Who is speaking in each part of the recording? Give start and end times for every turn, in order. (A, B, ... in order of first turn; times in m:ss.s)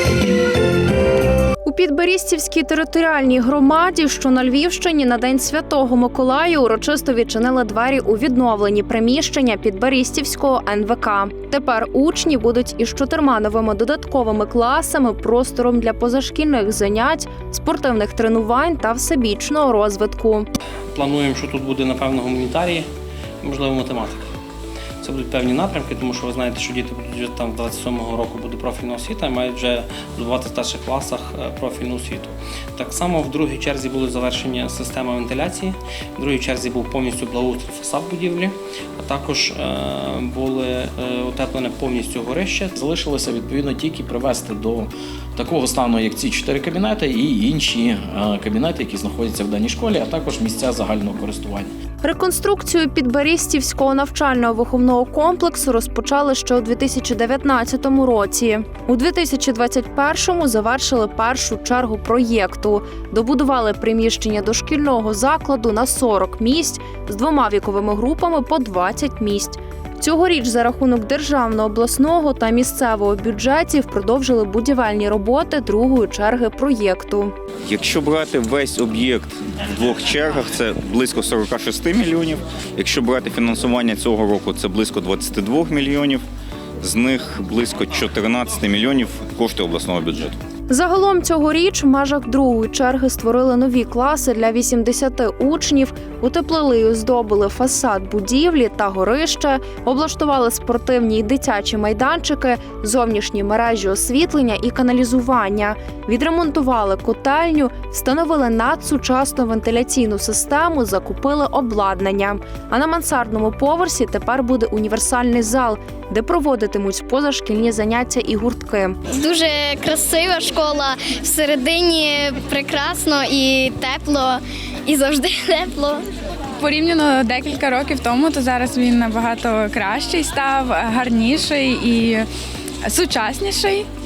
0:01.6-0:20.5 A
0:20.9-0:22.9 B
0:23.4-0:24.2 B
0:25.0-0:42.7 B
0:42.8-0:51.7 C
0:52.0-1:17.3 A
1:17.7-1:26.2 D
1:26.8-1:30.4 D
1:30.7-1:59.0 A
1:59.1-2:06.0 E
2:06.6-2:12.3 F
2:12.9-2:13.9 F